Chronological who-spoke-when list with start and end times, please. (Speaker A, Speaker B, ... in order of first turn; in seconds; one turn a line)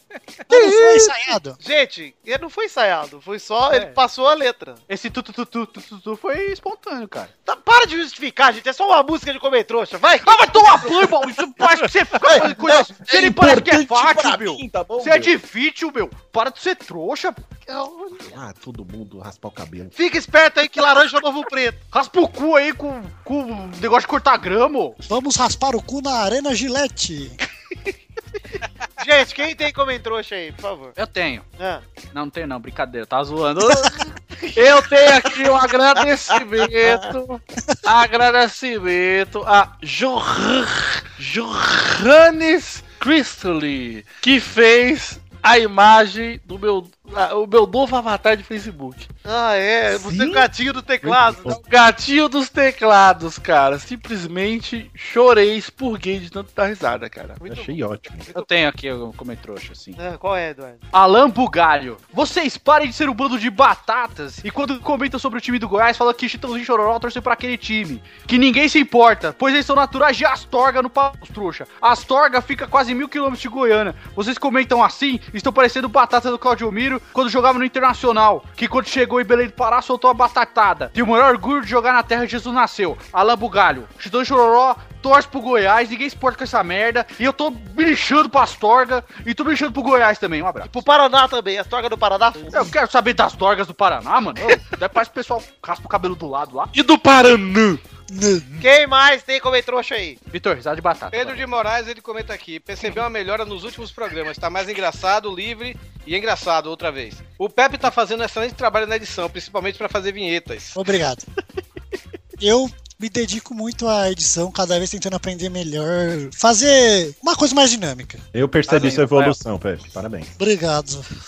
Speaker A: 0.5-1.6
Speaker B: 1.6-4.8
Speaker C: 3.7-4.0
Speaker C: 4.9-7.3
Speaker B: 7.5-10.9
Speaker C: 10.2-17.4
Speaker D: 12.1-15.3
Speaker B: 17.7-18.2
Speaker D: 18.2-19.9
Speaker B: 19.9-21.8
Speaker C: 21.9-25.0
Speaker A: 25.1-27.4
Speaker B: 29.0-30.9
Speaker C: 30.9-31.4
Speaker C: 32.1-34.0
Speaker E: 34.5-49.1
Speaker D: 36.8-37.1
Speaker B: 49.2-51.6
Speaker D: 49.9-50.5
Speaker D: 51.0-51.6
Speaker E: 51.5-57.4
Speaker D: 57.4-58.3
Speaker C: 58.3-60.0
Speaker B: 60.0-60.8
Speaker C: 60.9-90.7
Speaker B: 90.7-92.7
Speaker C: 92.5-96.7
Speaker E: 96.7-97.8
Speaker A: 98.1-98.5
Speaker B: 98.6-100.2
Speaker C: 100.3-101.4
Speaker F: 101.1-110.8
Speaker A: 110.7-111.2
Speaker A: 112.4-118.2
Speaker D: 118.3-120.3
Speaker C: 118.7-119.4
Speaker A: 120.4-121.1